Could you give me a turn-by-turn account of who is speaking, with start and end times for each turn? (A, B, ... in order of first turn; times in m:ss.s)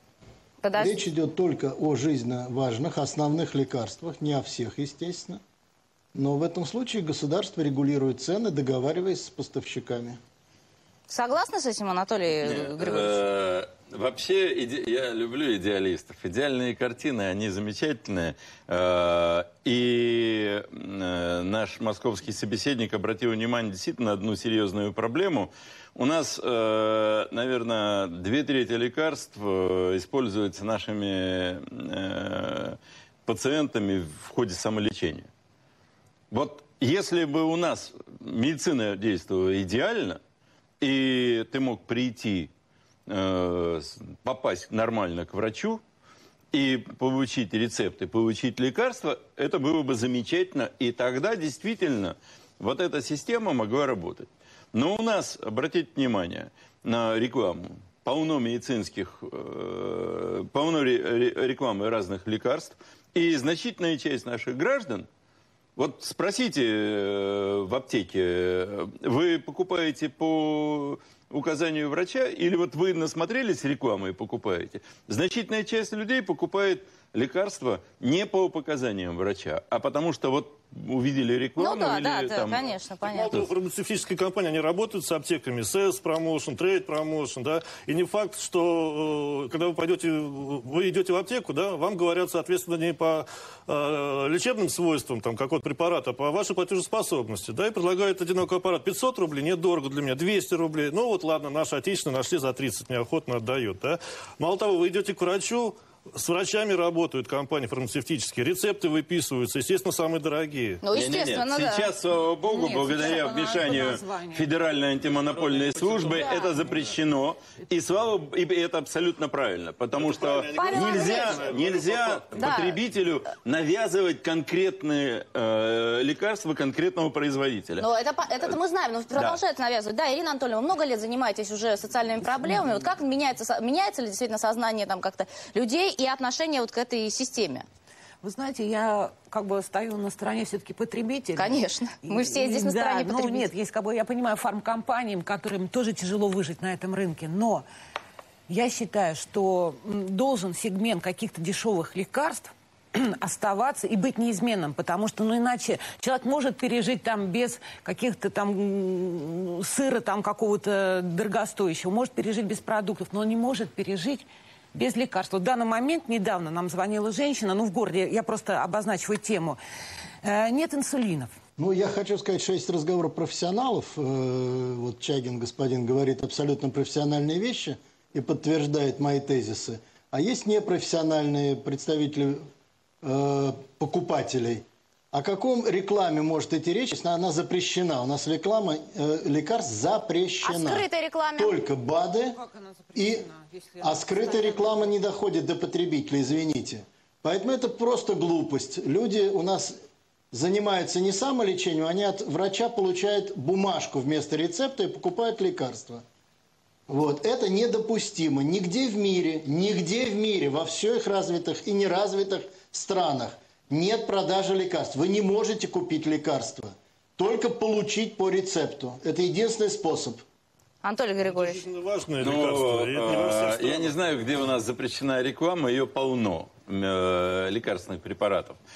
0:00.6-0:01.0 A
0:00.8-0:05.4 B
0:06.1-0:10.2 B
0:11.1-0:13.2 A
0:12.4-0:35.3 C
0:36.3-0:40.2 C
0:40.8-0:42.5 C
0:43.1-0:45.8 C
0:46.5-1:05.1 C
1:05.8-1:22.6 C
1:21.6-1:23.4 A
1:23.0-1:50.8 D
1:50.8-1:51.9 A
1:50.9-2:07.9 C
1:52.5-1:54.5 E
1:55.6-1:56.3 D
1:59.9-2:02.6 D
2:00.5-2:01.4 A
2:02.3-2:02.8 A
2:07.8-2:17.6 A
2:18.2-2:27.6 E
2:21.4-2:23.5 A
2:28.5-2:49.6 E
2:50.2-2:51.3 E
2:51.6-3:02.5 B
3:03.0-3:10.8 B
3:10.4-3:11.6 A
3:11.4-3:12.4 B
3:12.3-3:14.9 E
3:12.9-3:13.3 B
3:13.8-3:19.8 B
3:20.3-3:26.0 B
3:26.9-3:40.2 B
3:40.8-3:41.6 A
3:41.2-3:44.0 D
3:42.2-3:48.6 C